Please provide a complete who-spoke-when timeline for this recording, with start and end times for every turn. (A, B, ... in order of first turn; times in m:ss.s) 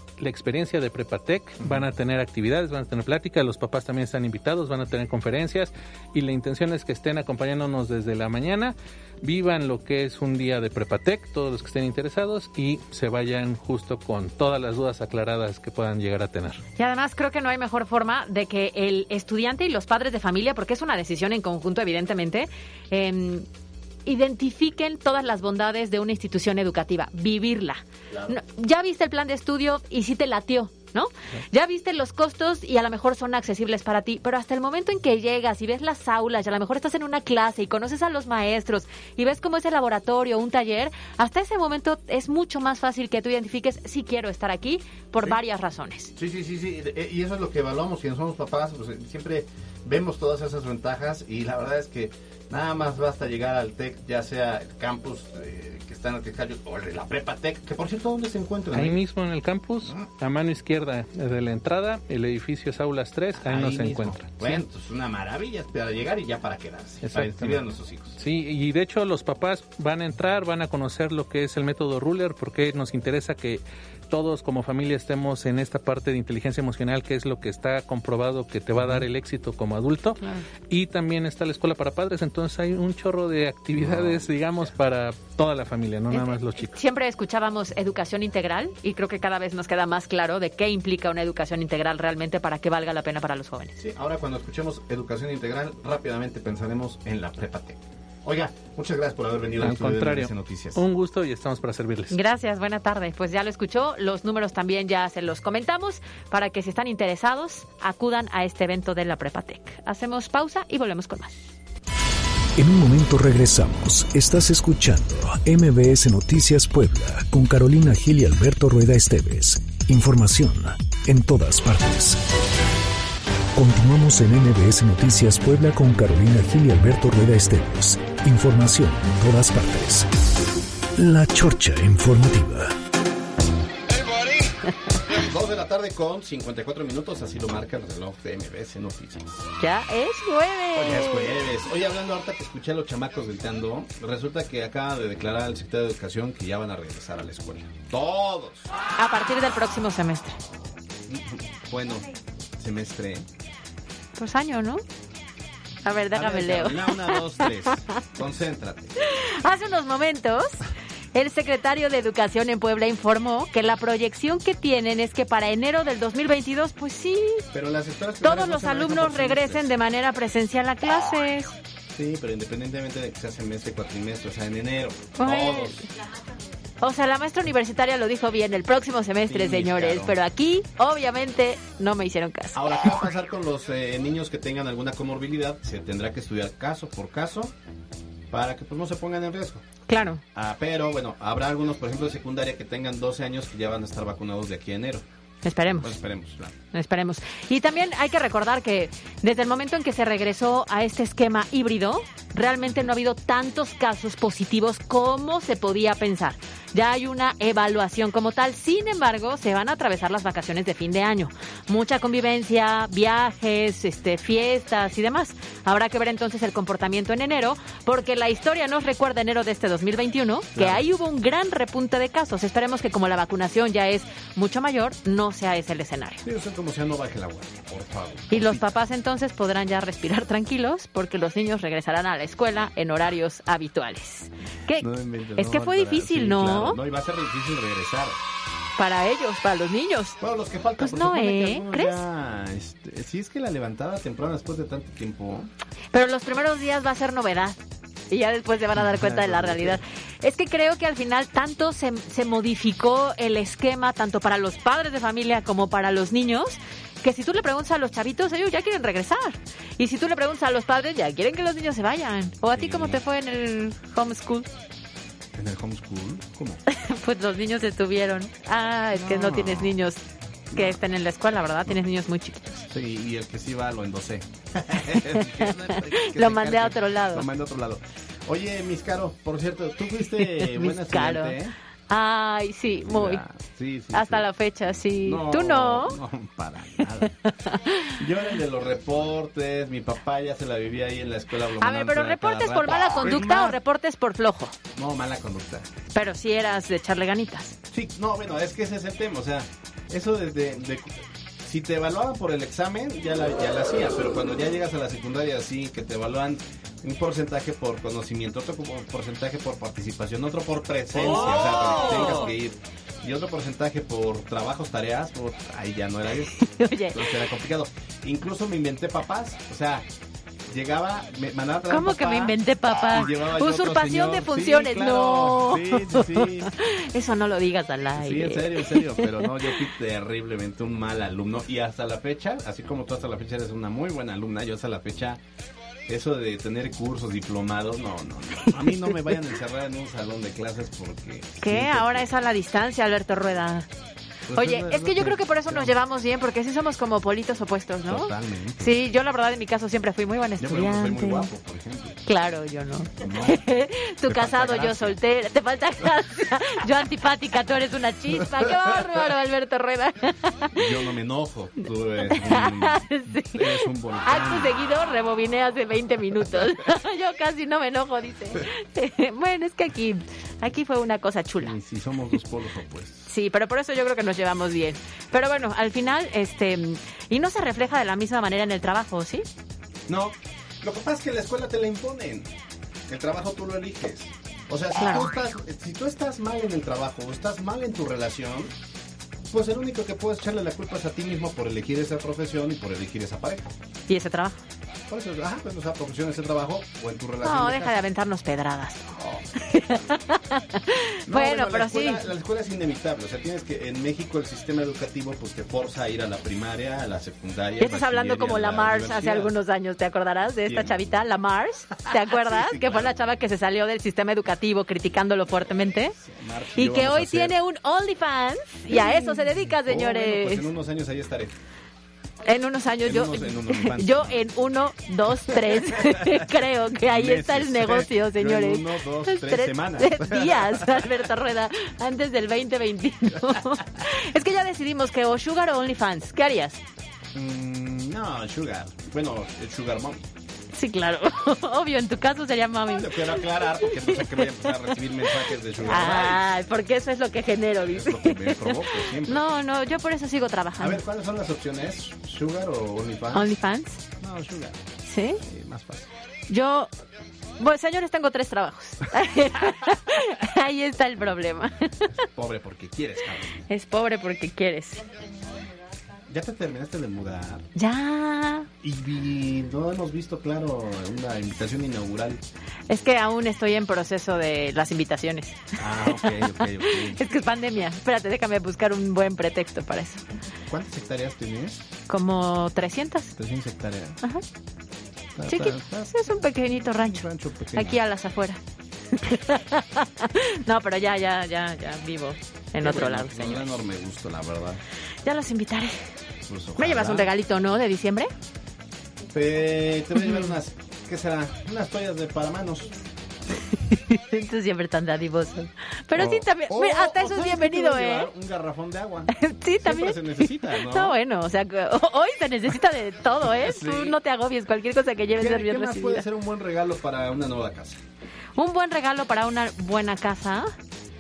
0:00.2-0:16.6 A
0:16.8-0:23.5 B
0:24.1-0:46.1 B
0:28.1-0:28.4 C
0:46.2-0:59.0 C
0:58.7-1:04.6 A
1:03.4-1:08.2 C
1:07.0-1:07.6 A
1:08.2-1:26.8 A
1:20.2-1:20.5 B
1:23.8-1:24.7 C
1:26.1-1:33.7 B
1:33.8-1:40.8 C
1:39.6-1:42.2 A
1:42.1-1:51.5 B
1:52.6-2:02.2 D
2:03.6-2:10.1 D
2:11.0-2:12.7 D
2:15.1-2:19.5 C
2:19.6-2:21.4 B
2:20.8-2:28.7 C
2:29.0-2:30.4 B
2:31.1-2:33.3 C
2:34.2-2:34.8 B
2:35.8-2:37.3 B
2:35.9-2:39.0 C
2:39.1-2:47.4 B
2:47.5-2:49.7 C
2:48.2-2:51.6 B
2:52.0-2:55.9 C
2:55.2-2:55.9 B
2:56.8-3:03.0 B
2:59.3-3:00.2 C
3:02.6-3:07.5 C
3:08.3-3:09.6 C
3:09.9-3:10.2 B
3:10.4-3:15.1 C
3:15.4-3:16.0 B
3:15.7-3:16.6 C
3:16.7-3:46.2 B
3:40.6-3:40.8 C
3:46.2-3:48.8 C
3:48.3-3:56.8 B
3:54.8-3:58.2 C
3:58.8-4:00.2 B
4:00.2-4:05.5 C
4:00.8-4:02.0 B
4:05.9-4:07.6 B
4:08.1-4:24.5 B
4:08.8-4:09.8 C
4:22.5-4:23.0 C
4:25.4-4:26.6 C
4:26.7-4:30.0 B
4:29.0-4:29.8 C
4:30.5-4:30.8 C
4:30.6-4:32.7 B
4:32.7-4:41.6 C
4:35.0-4:37.3 B
4:40.2-4:41.4 B
4:41.9-4:43.2 B
4:42.8-4:44.3 C
4:43.9-4:46.0 B
4:45.0-4:47.1 C
4:47.1-4:48.0 B
4:47.9-4:53.6 C
4:51.6-4:54.6 B
4:54.8-4:55.7 C
4:55.9-4:57.6 B
4:57.7-5:19.9 C
5:11.0-5:12.3 B
5:16.4-5:17.2 B
5:20.5-5:26.5 C
5:21.7-5:29.3 B
5:28.0-5:35.2 C
5:35.9-5:42.1 C
5:41.4-5:43.7 B
5:44.3-5:45.7 C
5:44.3-5:51.3 B
5:47.9-5:48.8 C
5:50.4-5:52.0 C
5:52.1-6:00.7 B
5:53.0-5:53.5 C
5:54.0-5:55.0 C
5:58.4-5:58.7 C
6:00.5-6:04.6 C
6:02.0-6:11.6 B
6:11.4-6:13.1 C
6:13.1-6:19.3 B
6:19.9-6:22.3 C
6:22.9-6:28.5 C
6:24.8-6:25.1 B
6:29.3-6:33.5 C
6:33.9-6:34.4 B
6:34.9-6:37.8 C
6:37.2-6:42.1 B
6:39.0-6:39.3 C
6:41.1-6:49.3 C
6:47.6-6:56.0 B
6:50.5-6:50.7 C
6:51.9-6:53.0 C
6:56.0-6:57.4 C
6:56.6-7:00.5 B
6:58.7-7:01.3 C
7:02.2-7:16.6 B
7:02.8-7:04.3 C
7:05.3-7:06.3 C
7:06.8-7:10.9 C
7:17.2-7:20.0 C
7:20.5-7:24.6 B
7:22.7-7:26.3 C
7:25.6-7:30.8 B
7:27.7-7:29.2 C
7:30.6-7:33.4 C
7:33.1-7:33.8 B
7:34.0-7:34.7 C
7:34.9-7:35.2 B
7:35.2-7:35.9 C
7:36.3-7:36.7 B
7:37.4-7:41.9 B
7:42.1-7:43.5 C
7:43.5-7:44.8 B
7:46.1-7:47.5 C
7:47.6-7:48.5 B
7:48.6-7:52.2 C
7:52.7-8:00.0 B
7:55.6-7:57.0 C
8:00.5-8:01.7 C
8:01.9-8:03.2 B
8:03.2-8:04.0 C
8:05.2-8:05.9 C
8:05.3-8:08.4 B
8:06.6-8:07.8 C
8:08.9-8:13.6 B
8:12.6-8:14.6 C
8:15.0-8:15.8 B
8:16.3-8:17.1 C
8:16.6-8:18.1 B
8:19.1-8:22.8 C
8:20.0-8:20.4 B
8:23.7-8:28.1 B
8:25.9-8:31.0 C
8:29.1-8:36.1 B
8:33.2-8:34.0 C
8:35.2-8:37.8 C
8:38.4-8:40.5 B